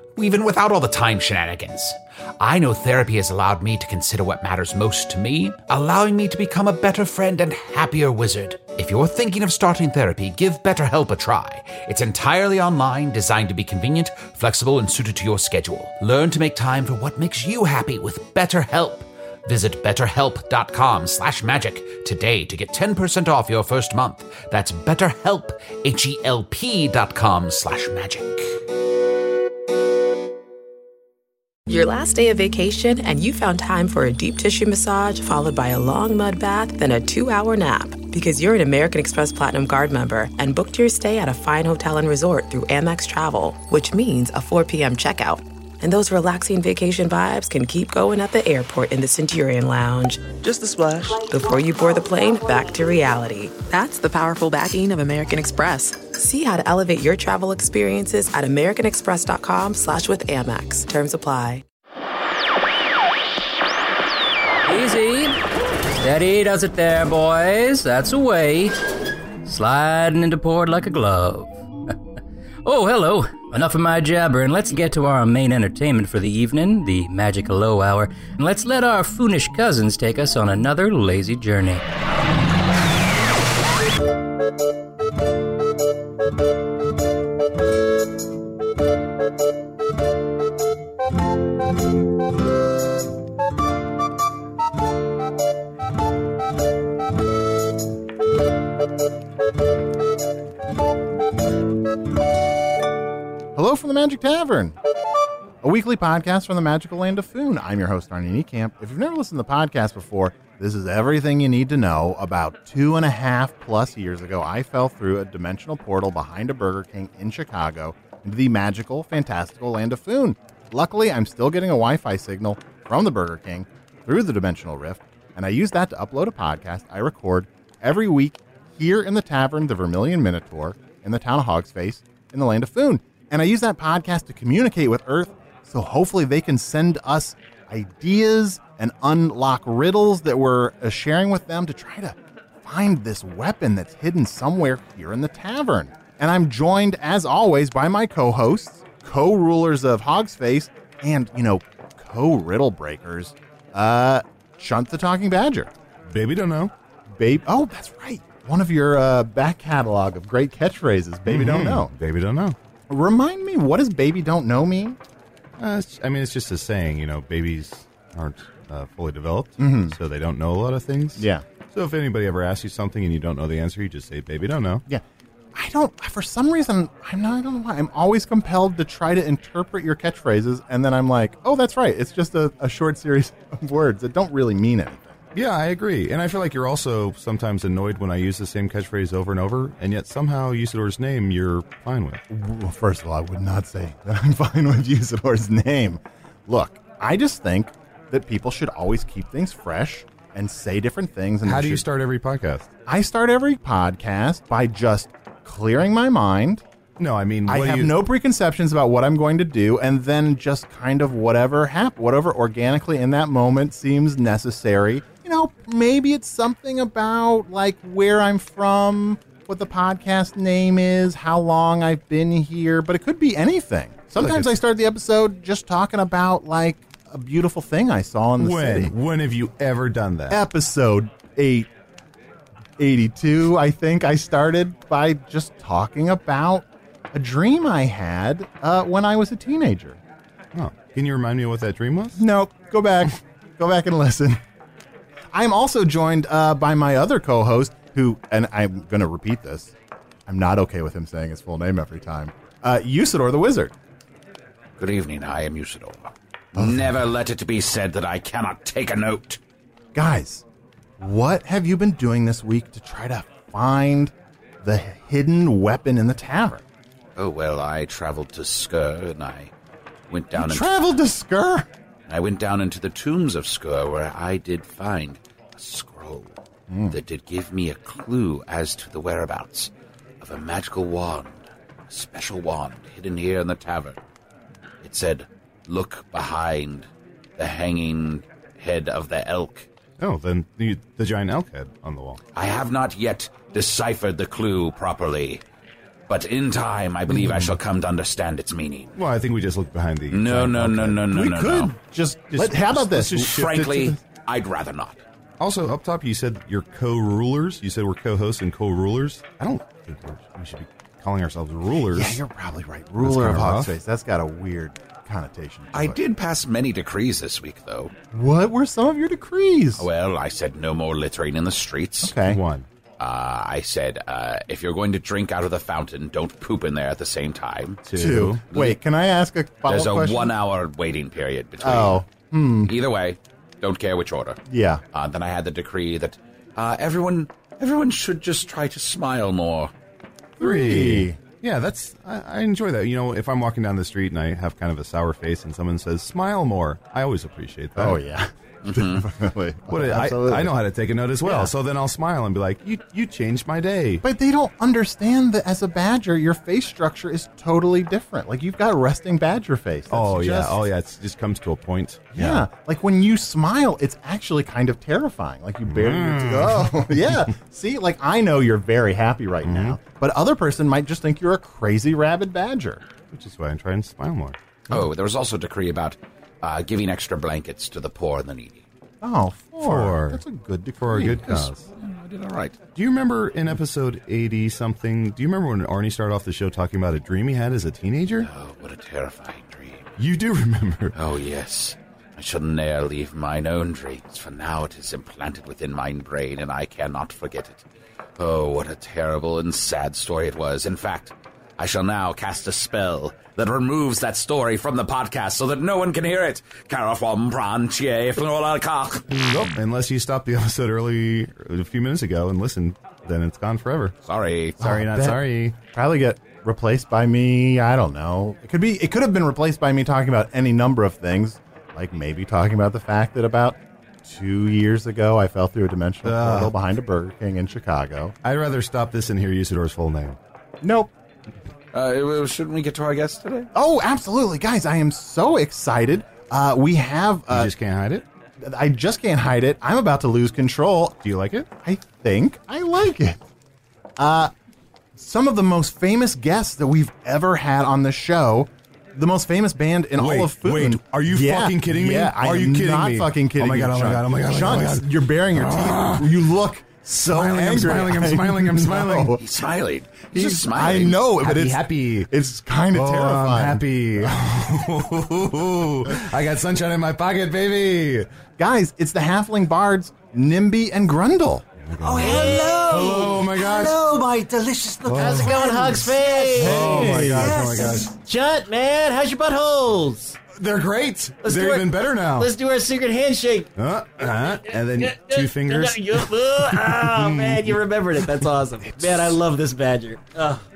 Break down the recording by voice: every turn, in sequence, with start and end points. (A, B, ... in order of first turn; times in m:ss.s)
0:00.2-0:28.5 A
0:31.7-1:01.6 B
1:04.6-1:05.4 C
1:06.0-1:08.8 C
1:09.4-1:11.9 C
1:12.6-1:21.8 C
1:43.6-1:44.8 D
1:45.6-2:35.7 D
2:36.0-2:36.7 E
2:37.2-2:41.9 D
2:41.3-2:42.6 E
2:42.9-2:45.0 D
2:45.6-2:54.8 E
2:49.6-2:50.0 D
2:51.2-2:51.4 D
2:55.6-3:05.2 D
3:05.4-3:12.2 E
3:12.3-3:21.8 D
3:21.4-3:22.7 E
3:22.9-3:26.6 D
3:27.0-3:28.0 E
3:27.5-3:48.9 D
3:44.2-3:44.5 E
3:48.4-3:50.4 E
3:50.3-3:51.7 D
3:52.8-4:00.0 D
4:00.5-4:02.2 E
4:02.2-4:04.4 D
4:05.3-4:09.7 D
4:10.3-4:13.7 D
4:14.8-4:19.4 A
4:16.6-4:17.0 D
4:20.0-4:20.4 D
4:21.0-4:24.1 D
4:24.6-4:26.6 D
4:27.2-4:29.5 A
4:30.1-4:30.8 A
4:30.3-4:31.7 D
4:32.1-4:36.4 A
4:36.7-4:37.0 D
4:36.9-4:39.7 A
4:40.2-4:41.4 A
4:41.9-4:44.0 A
4:44.8-4:49.7 A
4:50.0-4:52.2 E
4:52.3-4:55.4 A
4:56.1-4:58.9 A
4:57.1-4:57.6 E
4:59.0-5:01.1 E
5:00.1-5:01.7 A
5:01.1-5:04.0 D
5:02.3-5:03.7 E
5:02.8-5:05.0 A
5:05.4-5:12.2 E
5:11.9-5:16.0 D
5:13.0-5:13.8 E
5:15.7-5:17.9 A
5:18.1-5:19.8 D
5:19.8-5:22.1 A
5:22.0-5:22.4 D
5:22.2-5:22.7 E
5:23.0-5:28.8 A
5:27.9-5:28.4 E
5:27.9-5:30.3 D
5:29.7-5:32.0 A
5:31.6-5:32.7 D
5:32.6-5:34.4 A
5:34.5-5:34.8 D
5:34.9-5:39.7 A
5:40.4-5:41.2 D
5:40.4-5:48.0 E
5:47.8-5:50.5 D
5:48.6-5:49.1 A
5:49.7-5:54.0 E
5:51.2-5:51.5 D
5:54.0-6:00.6 D
5:59.9-6:02.5 E
6:02.2-6:12.8 D
6:05.7-6:07.3 E
6:09.4-6:09.8 E
6:13.1-6:14.4 E
6:14.7-6:18.6 A
6:19.0-6:21.6 D
6:19.6-6:20.2 E
6:20.8-6:21.6 E
6:21.8-6:22.6 A
6:22.8-6:28.3 E
6:28.2-6:29.9 A
6:30.0-6:31.0 E
6:31.0-6:37.6 A
6:38.2-6:49.1 A
6:49.1-6:53.9 E
6:54.0-6:54.6 A
6:54.6-6:55.6 E
6:54.6-6:55.2 D
6:55.7-7:08.2 D
7:06.0-7:06.6 E
7:08.2-7:10.2 E
7:10.6-7:10.9 D
7:11.7-7:13.5 A
7:13.6-7:17.5 D
7:17.3-7:18.0 E
7:18.4-7:21.0 D
7:21.0-7:21.5 E
7:21.6-7:23.2 D
7:24.0-7:24.3 D
7:25.0-7:39.3 D
7:30.0-7:36.3 E
7:37.0-7:39.2 E
7:39.2-7:41.0 A
7:40.1-7:44.2 D
7:41.2-7:42.1 E
7:42.7-7:48.1 E
7:48.4-7:51.5 D
7:51.6-7:53.8 E
7:51.8-7:57.9 F
7:52.0-7:53.0 G
7:54.8-7:55.4 E
7:55.0-8:00.2 G
7:56.3-7:58.0 E
8:00.3-8:02.3 E
8:01.2-8:03.5 G
8:03.6-8:07.6 E
8:04.4-8:10.4 G
8:08.6-8:09.2 D